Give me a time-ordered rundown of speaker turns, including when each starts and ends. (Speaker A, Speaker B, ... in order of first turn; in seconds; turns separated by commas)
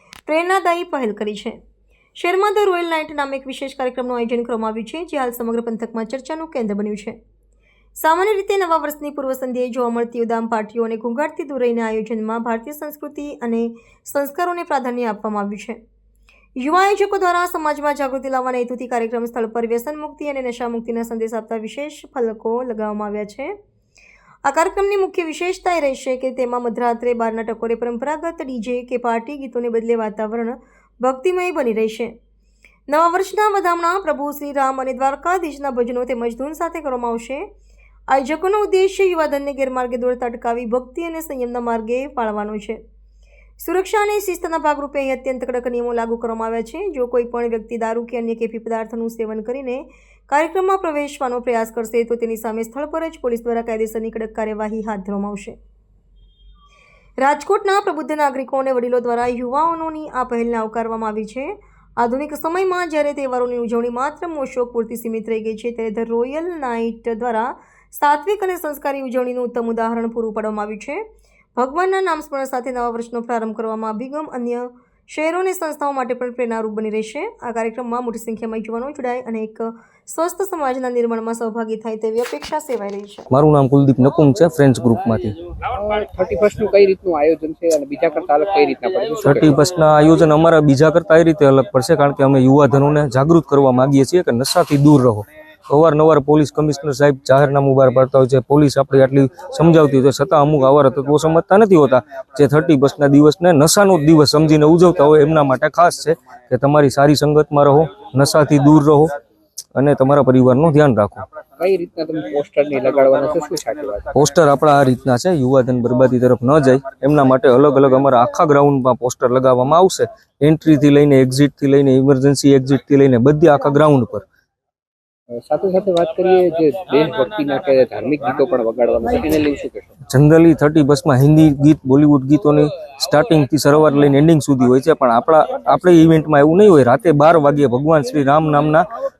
Speaker A: 0.2-1.6, Speaker A: 2.2-7.2, Speaker A: 8.0-15.8, Speaker A: 16.6-23.5, Speaker A: 24.4-32.1, Speaker A: 32.9-37.5, Speaker A: 38.1-42.8, Speaker A: 43.6-55.6, Speaker A: 57.2-71.0, Speaker A: 71.5-83.3, Speaker B: 83.3-85.3, Speaker C: 85.7-89.5, Speaker B: 89.2-109.1, Speaker B: 109.7-111.2, Speaker C: 111.6-114.0, Speaker B: 114.1-124.2, Speaker C: 125.3-129.9, Speaker B: 130.1-138.8